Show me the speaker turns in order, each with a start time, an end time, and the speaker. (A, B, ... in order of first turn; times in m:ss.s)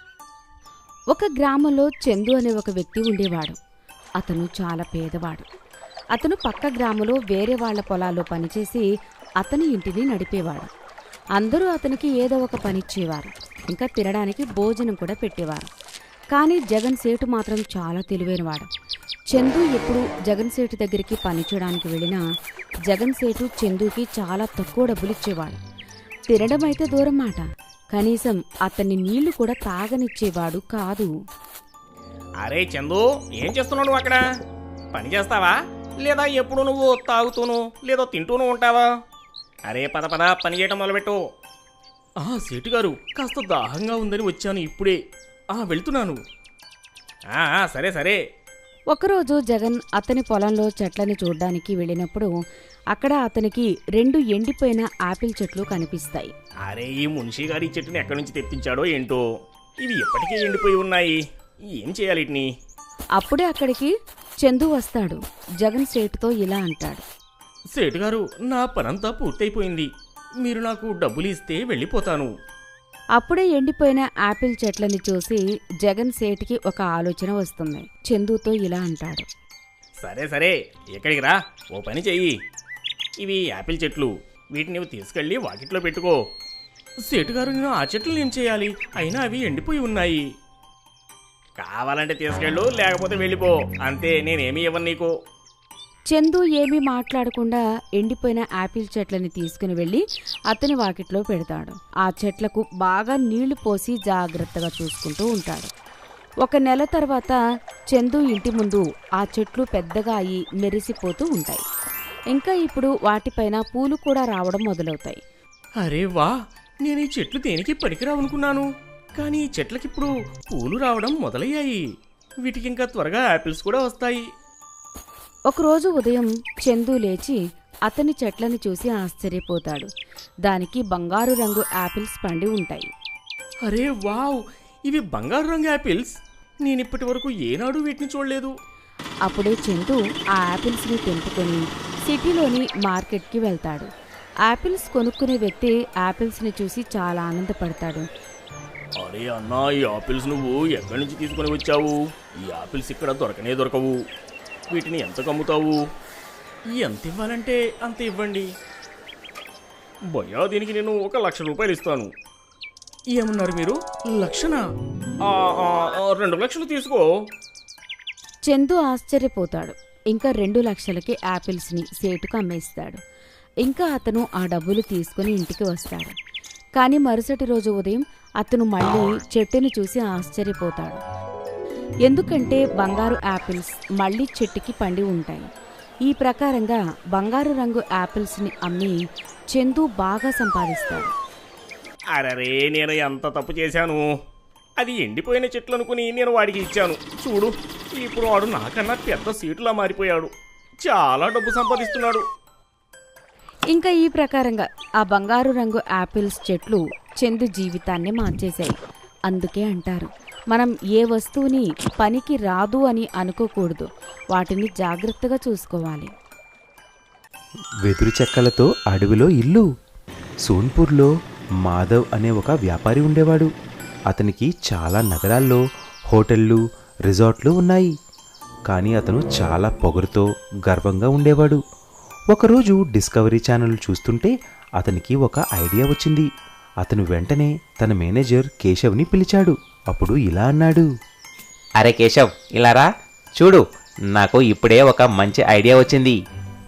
0:01.1-0:03.6 A
0:04.2-0:05.4 A
0:06.2-0:08.8 A
0:09.4-0:10.7 A
0:11.4-0:15.7 A
0:16.3-0:18.7 A
0:19.3-0:22.2 A
0:22.9-0:25.6 A
0:26.3-0:31.1 A
0:32.4-0:34.2 B
0:34.9-0:38.9 B
0:39.7-0:41.2 B
0:42.2-0:45.0 B
0:45.6-0:46.2 B
0:47.3-0:48.2 B
0:48.9-0:52.3 A
0:52.9-0:56.3 A
0:56.7-0:59.2 B
0:59.8-1:01.2 B
1:01.8-1:02.5 B
1:03.2-1:03.9 A
1:04.4-1:07.0 A
1:07.8-1:09.9 B
1:10.4-1:12.3 B
1:13.2-1:19.2 A
1:20.0-1:22.3 B
1:23.2-1:26.2 B
1:27.0-1:30.2 B
1:31.6-1:35.1 B
1:36.1-1:45.7 A
1:46.4-1:47.4 A
1:47.9-1:51.6 A
1:52.3-1:55.2 A
1:55.8-1:56.3 B
1:56.8-1:58.7 B
1:59.2-2:01.8 B
2:02.4-2:04.2 B
2:05.5-2:09.9 A
2:10.4-2:12.9 A
2:13.7-2:16.1 B
2:16.6-2:18.5 B
2:19.2-2:23.9 A
2:24.5-2:28.1 A
2:29.0-2:31.9 B
2:32.4-2:33.9 B
2:34.7-2:35.8 B
2:36.8-2:38.4 B
2:40.1-2:42.1 B
2:43.1-2:44.6 B
2:45.2-2:47.0 B
2:48.5-2:53.0 A
2:53.6-2:56.1 A
2:56.8-3:01.0 A
3:02.0-3:05.5 A
3:06.1-3:09.0 A
3:09.5-3:11.1 A
3:12.2-3:14.0 B
3:14.8-3:20.3 B
3:20.8-3:22.2 B
3:23.7-3:28.8 A
3:29.3-3:36.1 A
3:37.8-3:39.6 C
3:40.4-3:41.1 C
3:41.6-3:43.5 C
3:44.1-3:47.9 C
3:48.7-3:51.6 C
3:52.3-3:56.3 C
3:56.8-4:00.9 C
4:01.8-4:03.6 D
4:04.1-4:06.2 D